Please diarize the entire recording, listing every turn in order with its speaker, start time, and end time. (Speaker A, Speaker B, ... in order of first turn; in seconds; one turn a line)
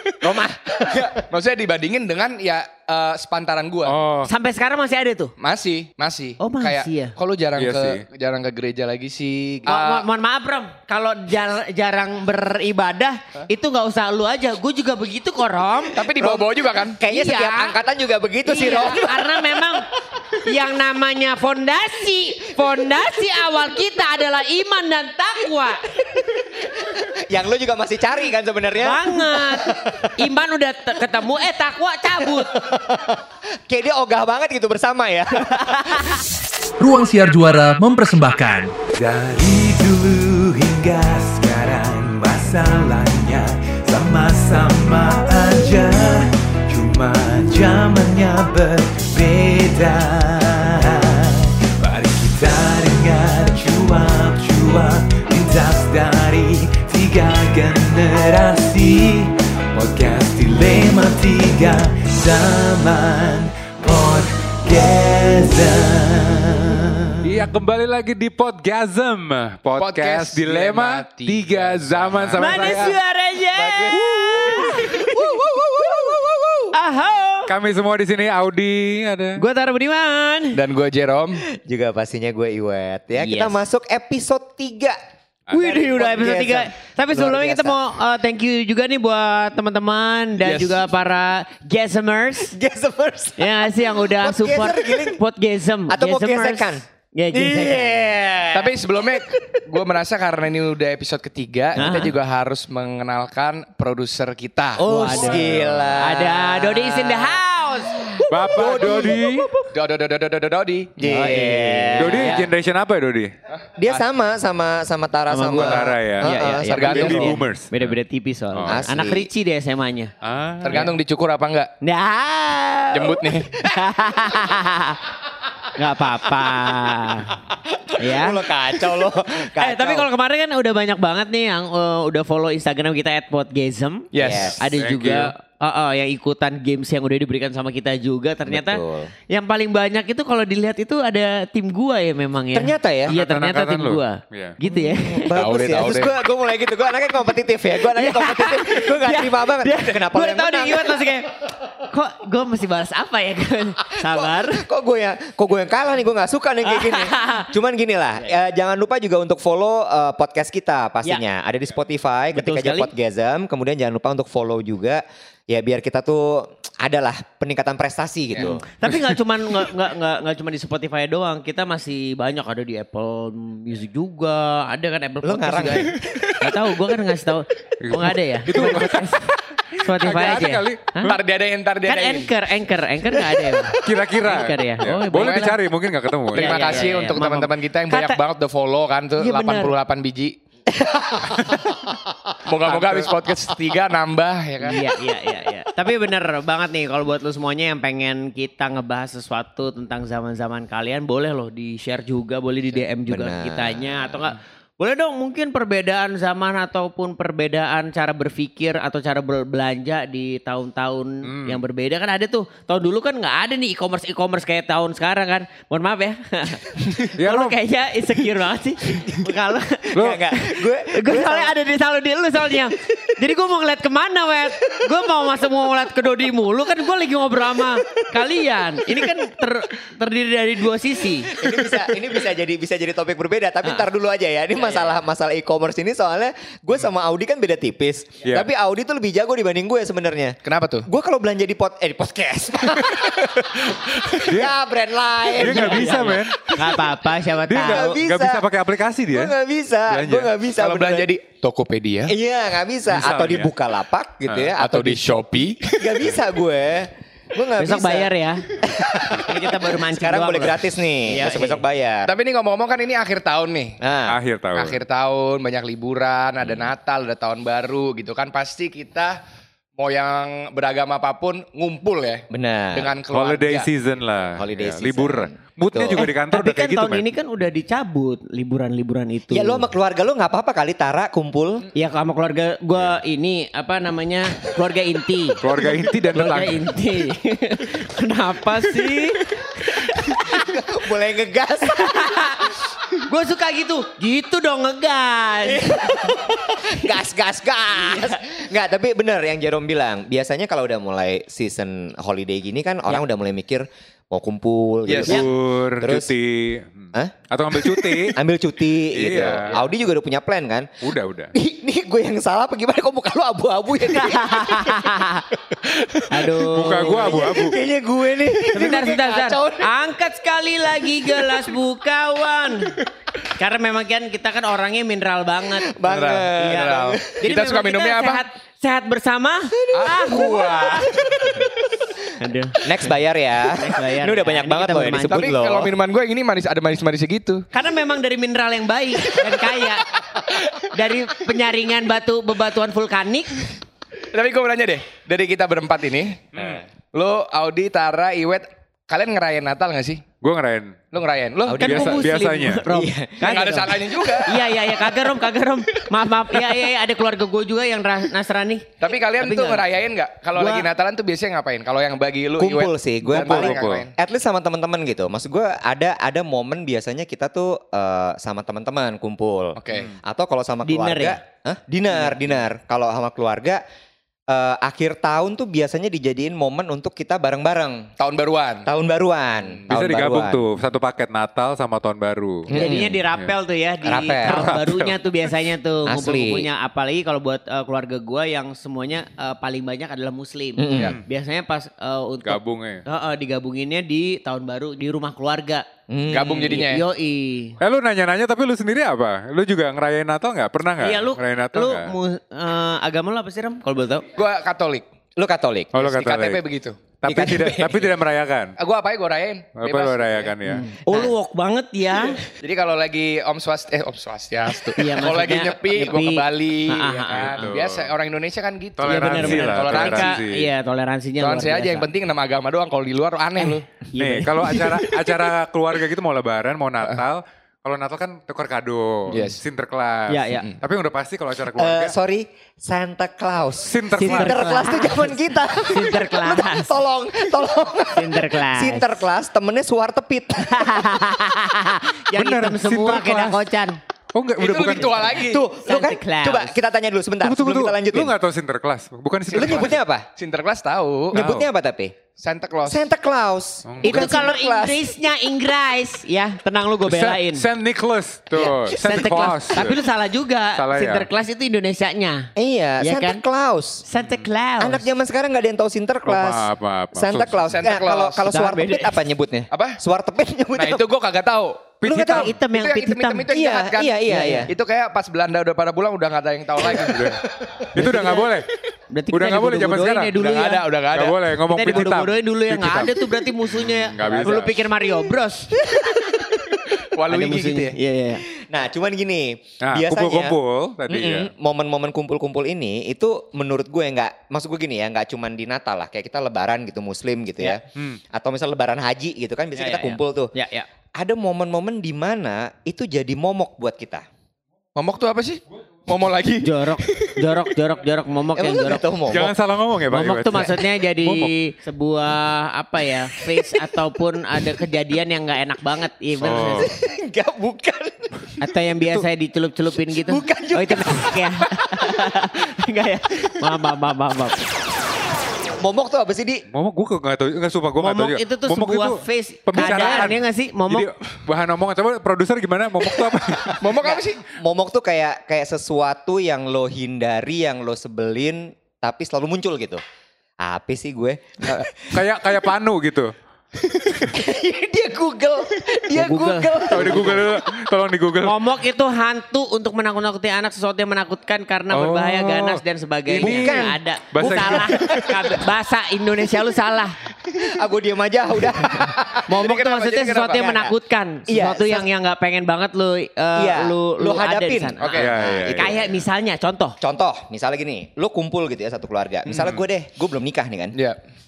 Speaker A: 0.2-1.2
Speaker B: 0.9-4.0
Speaker C: 3.9-4.3
Speaker D: 4.3-5.3
Speaker B: 5.4-10.1
Speaker D: 6.4-7.2
Speaker C: 7.6-8.0
Speaker D: 9.7-16.1
Speaker B: 15.9-17.0
Speaker A: 16.2-19.8
Speaker D: 17.1-17.7
Speaker D: 18.4-26.0
Speaker A: 26.6-30.1
Speaker D: 28.8-32.6
Speaker A: 32.2-36.2
Speaker E: 36.8-67.3
Speaker C: 67.2-73.0
Speaker B: 69.8-72.9
Speaker D: 72.4-75.0
Speaker A: 73.5-76.7
Speaker D: 76.7-77.5
Speaker C: 77.5-79.4
Speaker D: 79.4-80.6
Speaker B: 80.5-81.4
Speaker A: 81.5-85.0
Speaker D: 83.2-83.6
Speaker D: 85.5-92.5
Speaker A: 85.5-87.8
Speaker B: 90.4-90.8
Speaker A: 92.4-95.2
Speaker D: 93.4-98.1
Speaker A: 95.9-99.6
Speaker B: 98.5-104.8
Speaker D: 101.8-102.2
Speaker D: 104.8-108.1
Speaker A: 104.8-109.3
Speaker C: 105.4-105.9
Speaker C: 108.3-109.5
Speaker B: 109.7-110.9
Speaker A: 111.0-112.5
Speaker D: 111.0-112.4
Speaker C: 112.0-113.3
Speaker B: 113.5-114.0
Speaker A: 113.8-117.4
Speaker D: 115.3-120.1
Speaker C: 115.5-117.9
Speaker B: 116.6-117.4
Speaker C: 118.5-118.9
Speaker A: 118.7-119.3
Speaker C: 120.2-120.9
Speaker B: 120.6-121.7
Speaker D: 121.8-125.0
Speaker B: 122.9-123.5
Speaker A: 123.9-124.6
Speaker D: 125.7-127.3
Speaker A: 126.4-130.1
Speaker D: 128.0-128.5
Speaker D: 129.6-134.1
Speaker B: 134.1-134.6
Speaker A: 134.2-134.6
Speaker D: 134.6-145.4
Speaker C: 134.8-135.3
Speaker A: 138.5-139.1
Speaker A: 142.5-143.1
Speaker C: 143.1-144.6
Speaker A: 144.7-151.2
Speaker B: 145.3-146.1
Speaker D: 147.8-154.7
Speaker A: 154.0-168.6
Speaker D: 156.7-157.5
Speaker D: 162.3-162.9
Speaker B: 168.3-168.6
Speaker D: 168.8-181.1
Speaker C: 168.9-169.2
Speaker A: 175.2-176.4
Speaker C: 177.8-181.2
Speaker B: 181.1-182.3
Speaker D: 181.8-185.6
Speaker C: 183.8-187.0
Speaker B: 185.1-185.5
Speaker D: 186.3-188.2
Speaker B: 186.3-190.4
Speaker D: 189.2-189.7
Speaker A: 190.7-192.3
Speaker B: 192.4-194.9
Speaker C: 192.7-193.1
Speaker D: 194.6-231.4
Speaker A: 203.1-204.2
Speaker C: 211.2-211.6
Speaker C: 217.1-217.6
Speaker A: 219.9-221.6
Speaker C: 219.9-220.2
Speaker A: 231.3-246.8
Speaker B: 240.4-240.9
Speaker B: 243.0-243.4
Speaker C: 244.2-244.5
Speaker C: 245.3-246.5
Speaker D: 245.4-248.0
Speaker C: 247.5-249.3
Speaker A: 247.6-248.5
Speaker A: 249.1-251.1
Speaker C: 249.9-250.3
Speaker B: 250.6-252.1
Speaker A: 252.1-262.1
Speaker C: 252.9-253.5
Speaker C: 254.3-254.6
Speaker B: 254.5-256.0
Speaker D: 257.6-258.5
Speaker D: 259.1-261.6
Speaker B: 262.1-263.8
Speaker A: 263.8-264.2
Speaker C: 264.1-264.8
Speaker B: 264.6-269.2
Speaker B: 269.8-273.7
Speaker A: 272.3-272.9
Speaker C: 273.1-277.1
Speaker A: 274.4-276.1
Speaker D: 276.0-279.7
Speaker A: 279.3-281.7
Speaker D: 281.8-285.4
Speaker C: 285.4-286.6
Speaker D: 286.1-290.5
Speaker A: 289.9-292.6
Speaker D: 291.8-292.5
Speaker D: 293.0-296.1
Speaker A: 295.4-305.3
Speaker D: 297.8-298.2
Speaker B: 304.9-305.2
Speaker C: 305.0-308.2
Speaker A: 305.8-306.1
Speaker A: 306.9-310.7
Speaker C: 308.9-309.6
Speaker C: 310.8-311.3
Speaker A: 311.3-319.7
Speaker D: 313.9-315.3
Speaker D: 316.1-317.2
Speaker C: 316.5-317.6
Speaker D: 318.5-325.8
Speaker A: 320.8-321.5
Speaker A: 325.6-327.2
Speaker B: 325.9-328.2
Speaker D: 327.2-330.6
Speaker A: 329.6-331.5
Speaker B: 329.7-331.5
Speaker D: 332.2-332.7
Speaker A: 332.6-335.7
Speaker D: 333.4-335.4
Speaker B: 335.1-337.5
Speaker D: 337.5-340.0
Speaker D: 340.7-343.5
Speaker B: 344.1-350.0
Speaker C: 346.4-346.6
Speaker C: 350.2-350.8
Speaker B: 350.9-352.0
Speaker A: 351.4-354.4
Speaker C: 351.6-352.6
Speaker D: 351.6-359.7
Speaker B: 353.2-354.4
Speaker B: 358.8-363.9
Speaker D: 360.4-360.7
Speaker A: 362.4-373.6
Speaker C: 363.1-363.8
Speaker B: 369.6-369.9
Speaker D: 370.6-371.2
Speaker A: 374.3-377.9
Speaker B: 378.0-378.7
Speaker A: 378.7-380.4
Speaker C: 379.7-382.6
Speaker A: 382.5-383.0
Speaker D: 382.5-395.7
Speaker A: 383.8-384.5
Speaker C: 384.2-385.0
Speaker A: 385.9-386.5
Speaker A: 390.6-391.0
Speaker C: 392.2-392.8
Speaker A: 395.9-396.6
Speaker B: 396.1-396.9
Speaker D: 396.2-397.6
Speaker C: 397.6-401.9
Speaker D: 400.8-404.1
Speaker B: 404.1-404.9
Speaker A: 405.2-405.7
Speaker C: 405.7-406.4
Speaker B: 405.8-406.8
Speaker C: 407.0-408.6
Speaker A: 407.1-407.9
Speaker B: 408.6-410.3
Speaker C: 409.6-410.7
Speaker D: 410.4-412.2
Speaker B: 412.3-420.2
Speaker D: 414.8-417.5
Speaker C: 417.2-417.9
Speaker C: 418.8-420.5
Speaker D: 418.9-421.9
Speaker B: 421.2-423.7
Speaker D: 423.4-425.2
Speaker C: 424.0-431.9
Speaker B: 429.1-429.4
Speaker D: 430.1-430.5
Speaker A: 431.6-441.5
Speaker C: 433.6-434.4
Speaker D: 433.9-436.8
Speaker D: 437.9-438.9
Speaker D: 440.5-443.8
Speaker C: 442.1-443.4
Speaker C: 444.1-445.2
Speaker B: 444.4-445.4
Speaker A: 445.1-448.1
Speaker D: 445.6-446.6
Speaker C: 447.2-449.8
Speaker B: 449.3-451.2
Speaker A: 449.3-450.1
Speaker A: 451.1-451.9
Speaker C: 451.1-451.5
Speaker B: 452.2-452.8
Speaker A: 452.7-454.9
Speaker C: 453.7-454.2
Speaker D: 453.8-457.5
Speaker C: 456.9-459.8
Speaker A: 458.4-459.1
Speaker D: 458.7-463.2
Speaker C: 460.6-461.1
Speaker A: 462.4-463.8
Speaker D: 463.9-464.9
Speaker A: 464.6-470.9
Speaker C: 466.1-467.5
Speaker B: 467.5-468.3
Speaker D: 468.3-469.0
Speaker B: 469.5-469.8
Speaker B: 470.5-477.2
Speaker A: 471.8-472.3
Speaker C: 471.9-472.3
Speaker D: 471.9-473.3
Speaker A: 473.3-474.5
Speaker D: 474.1-474.5
Speaker C: 476.7-478.5
Speaker D: 477.8-478.2
Speaker D: 478.9-480.7
Speaker C: 479.1-480.1
Speaker B: 480.1-481.2
Speaker C: 480.9-484.6
Speaker D: 481.5-485.7
Speaker A: 485.7-486.3
Speaker B: 486.7-487.8
Speaker D: 487.1-488.2
Speaker A: 488.3-500.3
Speaker C: 489.6-491.3
Speaker D: 499.6-500.7
Speaker A: 501.0-504.1
Speaker B: 504.8-507.2
Speaker D: 506.4-509.1
Speaker A: 508.4-509.3
Speaker C: 509.1-511.3
Speaker D: 509.9-516.7
Speaker A: 513.3-513.7
Speaker C: 516.2-516.7
Speaker A: 516.3-518.4
Speaker D: 518.4-524.4
Speaker A: 519.9-522.2
Speaker A: 525.6-526.5
Speaker C: 526.5-533.7
Speaker D: 527.8-530.9
Speaker A: 529.6-529.9
Speaker B: 533.6-534.2
Speaker A: 533.8-539.8
Speaker A: 540.4-542.0
Speaker C: 541.9-543.1
Speaker A: 543.6-547.3
Speaker D: 545.9-547.2
Speaker C: 546.7-548.4
Speaker D: 548.2-557.0
Speaker C: 551.7-555.0
Speaker A: 553.2-555.3
Speaker A: 557.4-559.2
Speaker B: 558.9-560.5
Speaker D: 559.3-566.8
Speaker A: 560.3-560.7
Speaker A: 561.3-561.9
Speaker A: 563.4-565.9
Speaker B: 564.8-565.1
Speaker C: 565.0-565.8
Speaker A: 566.8-570.8